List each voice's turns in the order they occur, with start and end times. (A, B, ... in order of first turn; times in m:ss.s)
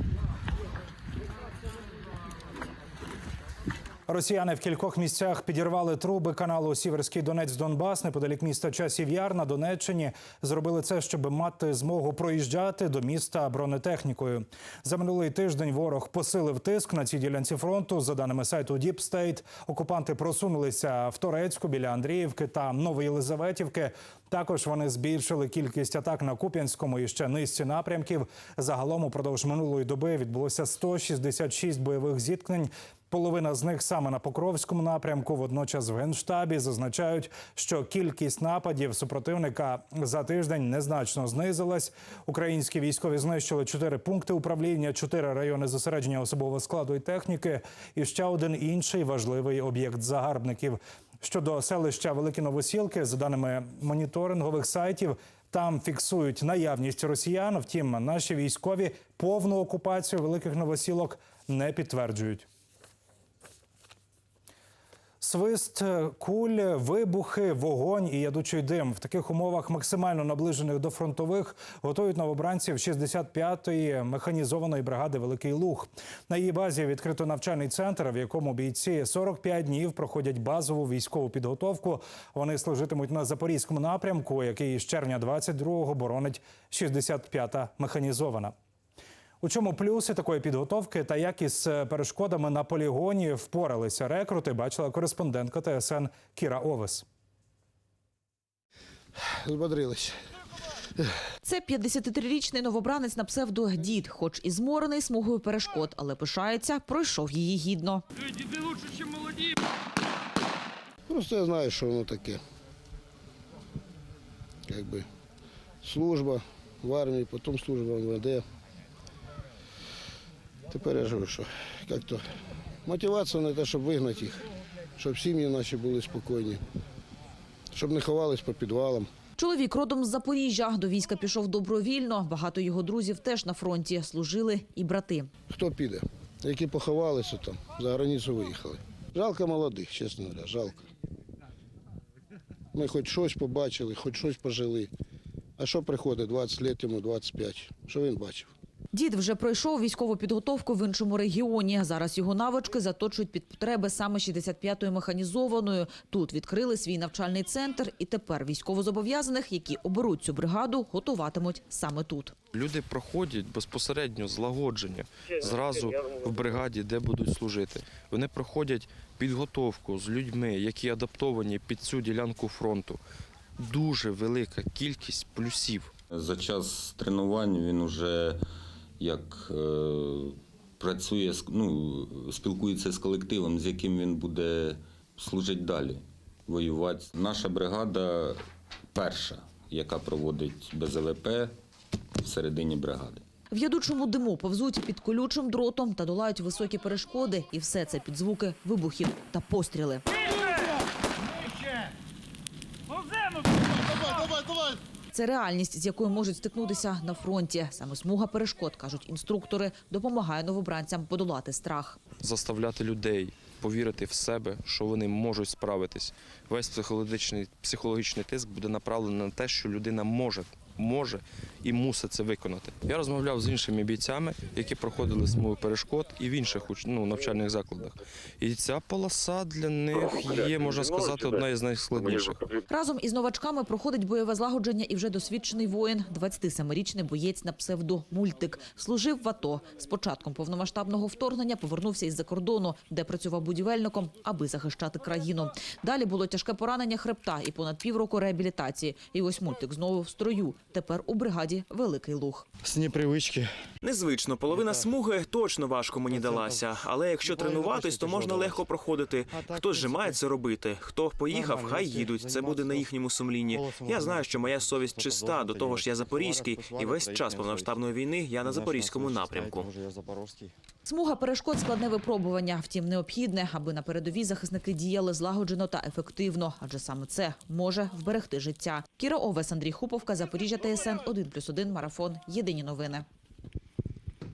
0:04.1-1:02.5 A
1:05.2-1:28.5 A
1:29.4-1:37.0 A
1:39.2-1:40.2 B
1:41.4-1:48.0 C
1:51.1-1:52.4 B
1:54.7-1:55.1 B
1:55.8-1:58.4 B
2:00.7-2:02.2 B
2:02.9-2:04.5 B
2:05.0-2:06.6 B
2:07.7-2:09.1 B
2:09.4-2:15.3 C
2:15.5-2:20.8 B
2:22.7-2:24.9 B
2:25.6-2:28.5 B
2:28.9-2:42.4 C
2:42.5-2:53.0 D
2:53.6-2:55.9 D
2:56.1-2:58.4 E
2:59.0-3:08.4 E
3:08.9-3:11.6 E
3:12.2-3:13.2 E
3:13.5-3:20.1 C
3:25.1-3:32.0 C
3:32.2-3:52.6 D
3:52.7-4:12.5 C
4:13.8-4:29.7 F
4:30.9-4:43.0 C